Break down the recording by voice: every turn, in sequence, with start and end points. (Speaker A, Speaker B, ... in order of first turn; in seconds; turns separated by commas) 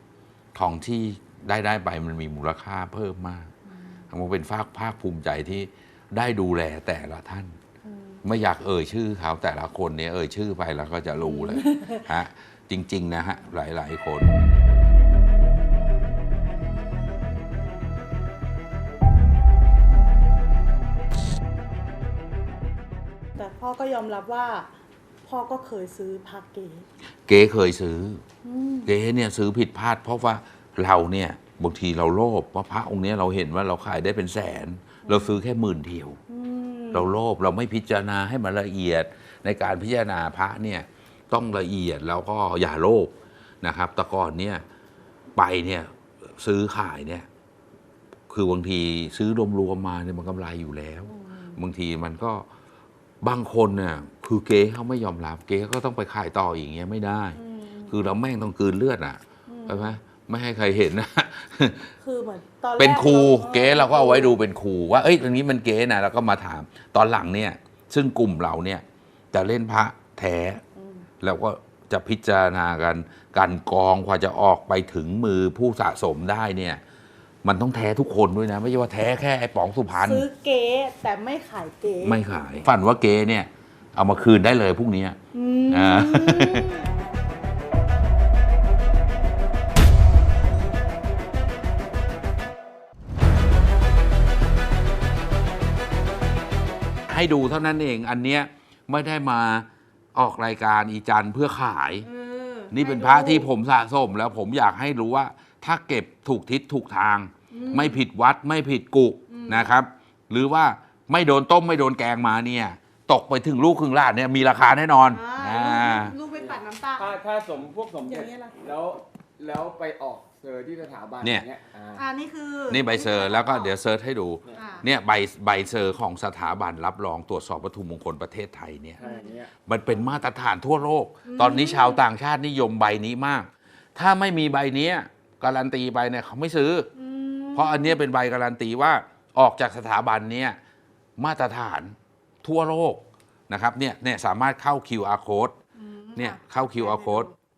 Speaker A: 0.5-3.5, Speaker B: 3.6-4.0, Speaker A: 4.1-7.5, Speaker B: 7.8-8.2, Speaker A: 8.2-14.3, Speaker B: 11.2-12.1, Speaker B: 23.4-24.7, Speaker B: 25.2-26.9, Speaker A: 27.3-28.2, Speaker B: 28.4-28.9, Speaker A: 28.8-36.2, Speaker B: 35.0-35.4, Speaker B: 36.3-37.1, Speaker A: 36.9-44.6, Speaker A: 45.4-47.3, Speaker A: 48.3-52.5, Speaker B: 51.0-51.6, Speaker A: 53.2-61.9, Speaker B: 57.3-58.2, Speaker B: 59.5-59.9, Speaker B: 62.0-64.4, Speaker A: 62.8-70.6, Speaker B: 70.8-71.1, Speaker A: 71.2-76.8, Speaker A: 77.4-80.2, Speaker B: 79.9-82.5, Speaker A: 82.0-85.2, Speaker B: 85.3-86.9, Speaker A: 85.7-86.8, Speaker A: 97.1-102.1, Speaker B: 102.0-103.5, Speaker A: 102.7-116.2, Speaker B: 107.5-108.0, Speaker B: 109.3-109.7, Speaker B: 115.1-117.1, Speaker C: 116.3-122.0, Speaker B: 118.0-118.6, Speaker A: 121.2-121.5, Speaker B: 122.0-123.8, Speaker A: 122.7-136.9, Speaker B: 124.5-124.8, Speaker B: 129.0-129.4, Speaker C: 129.1-129.5, Speaker B: 131.2-132.0, Speaker B: 136.9-138.0, Speaker A: 137.5-140.6, Speaker A: 141.2-145.5, Speaker B: 145.8-147.3, Speaker A: 146.2-147.3